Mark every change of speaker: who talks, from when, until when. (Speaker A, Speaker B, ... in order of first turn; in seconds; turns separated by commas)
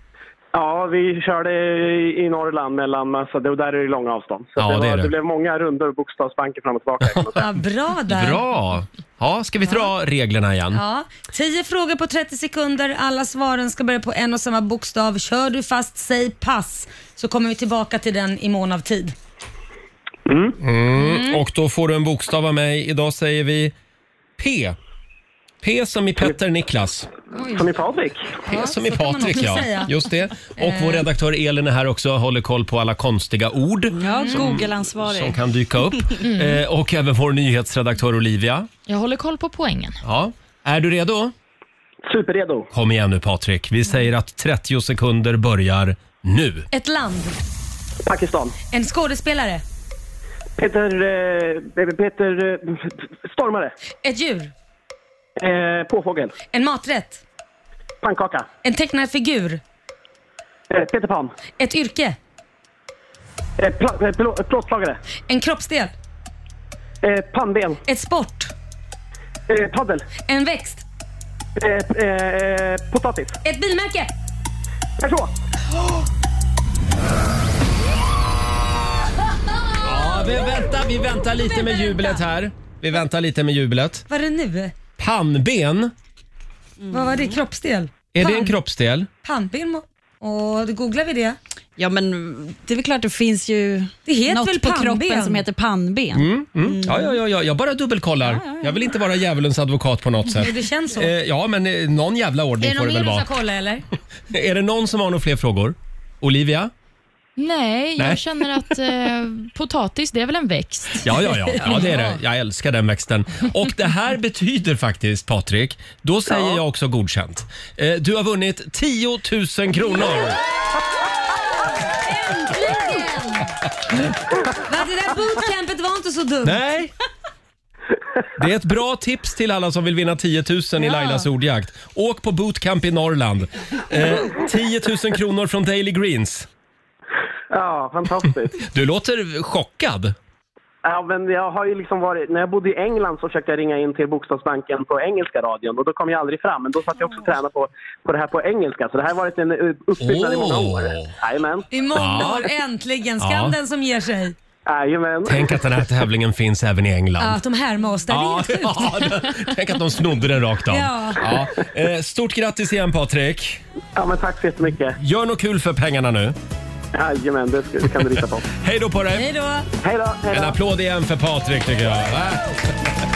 Speaker A: 0.5-7.5, Speaker B: 4.6-5.1, Speaker C: 7.3-8.4, Speaker B: 8.1-10.8, Speaker C: 10.7-19.1, Speaker A: 20.3-20.6, Speaker B: 20.6-23.7, Speaker C: 20.9-21.4, Speaker B: 24.4-24.8, Speaker B: 25.6-27.1, Speaker A: 27.5-28.4, Speaker C: 28.5-29.9, Speaker B: 28.5-38.7, Speaker C: 30.6-31.1, Speaker D: 33.9-35.4, Speaker C: 34.2-34.6, Speaker E: 36.3-36.5, Speaker E: 38.9-40.0, Speaker B: 40.0-41.3, Speaker A: 42.1-42.7, Speaker B: 42.7-46.7, Speaker C: 46.7-47.4, Speaker A: 48.0-48.6, Speaker C: 48.7-49.6, Speaker A: 50.6-53.8, Speaker C: 54.0-54.5, Speaker A: 55.4-56.4, Speaker C: 56.5-57.2, Speaker A: 58.0-58.5, Speaker C: 58.6-59.6, Speaker A: 60.7-61.4, Speaker C: 61.6-62.2, Speaker A: 63.6-65.0, Speaker C: 65.3-65.9, Speaker A: 67.0-67.8, Speaker C: 67.9-68.5, Speaker A: 69.5-70.1, Speaker C: 70.2-70.8, Speaker A: 71.6-73.4, Speaker C: 73.5-74.1, Speaker A: 75.0-75.3, Speaker B: 79.8-84.1, Speaker C: 84.1-84.7, Speaker B: 85.0-85.9, Speaker C: 86.9-88.6, Speaker D: 86.9-87.3, Speaker B: 88.2-89.1, Speaker C: 89.2-91.4, Speaker D: 91.8-97.2, Speaker C: 94.1-95.4, Speaker B: 96.1-103.3, Speaker D: 98.3-98.8, Speaker C: 100.3-101.1, Speaker C: 102.6-103.9, Speaker B: 104.3-106.7, Speaker E: 107.4-111.1, Speaker B: 108.0-108.4, Speaker B: 111.0-120.4, Speaker C: 111.6-112.2, Speaker C: 121.3-123.6, Speaker C: 124.5-126.6, Speaker B: 126.4-126.9, Speaker B: 128.4-136.5, Speaker C: 130.9-131.2, Speaker A: 137.5-138.6, Speaker B: 138.7-140.2, Speaker A: 140.8-151.7, Speaker B: 150.0-151.1, Speaker C: 151.7-154.3, Speaker B: 151.9-152.5, Speaker B: 153.2-153.6, Speaker A: 154.7-155.8, Speaker B: 155.2-157.4, Speaker C: 157.2-159.1, Speaker B: 158.1-163.6, Speaker C: 160.7-161.3, Speaker A: 164.0-165.0, Speaker B: 165.0-166.4, Speaker A: 166.9-168.5, Speaker B: 168.6-169.3, Speaker C: 169.1-169.7, Speaker A: 169.8-170.6, Speaker B: 170.3-172.5